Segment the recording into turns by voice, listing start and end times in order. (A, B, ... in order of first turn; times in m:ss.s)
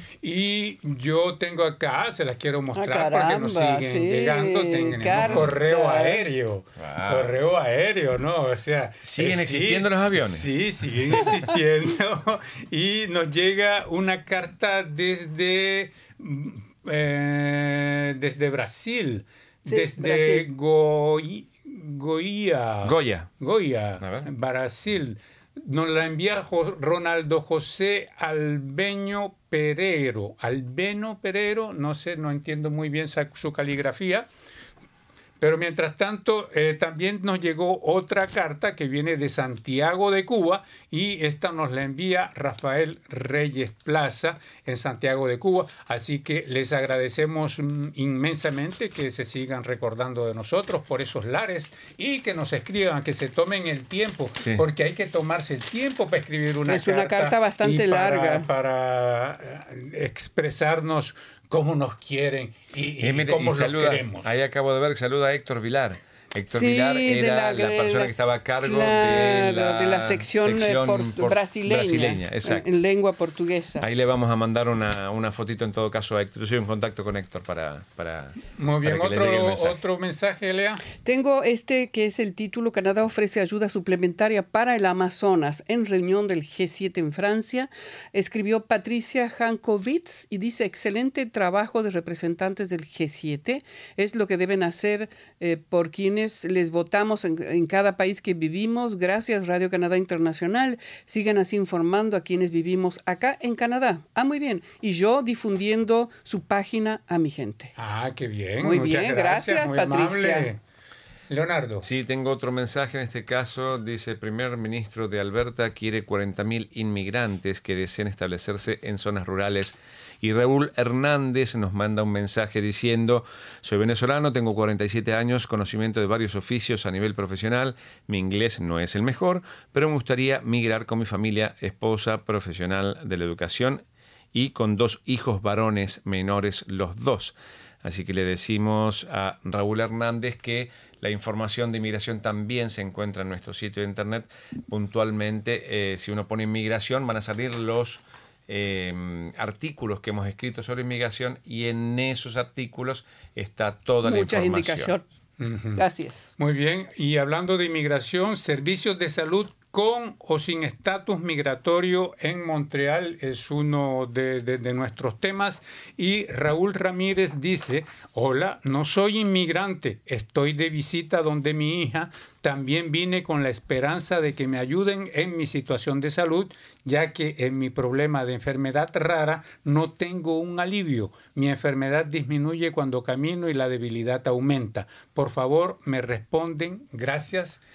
0:00.2-0:34.3 A
0:02.8-0:06.2 B
0:05.1-0:05.5 C
0:06.8-0:07.4 C
0:09.0-0:10.5 C
0:19.7-0:20.5 B
0:22.8-0:23.3 C
0:24.0-0:24.3 C
0:35.4-1:04.3 A
0:56.7-0:58.5 B
1:03.0-1:12.7 C
1:06.5-1:13.9 B
1:13.8-1:19.8 C
1:18.6-1:20.8 A
1:21.0-1:47.7 B
1:47.8-1:50.6 A
1:48.6-1:50.5 B
1:51.3-1:51.9 A
1:51.8-2:35.0 C
2:34.0-2:35.1 B
2:35.4-2:35.8 A
2:35.8-2:36.4 B
2:36.4-3:07.6 A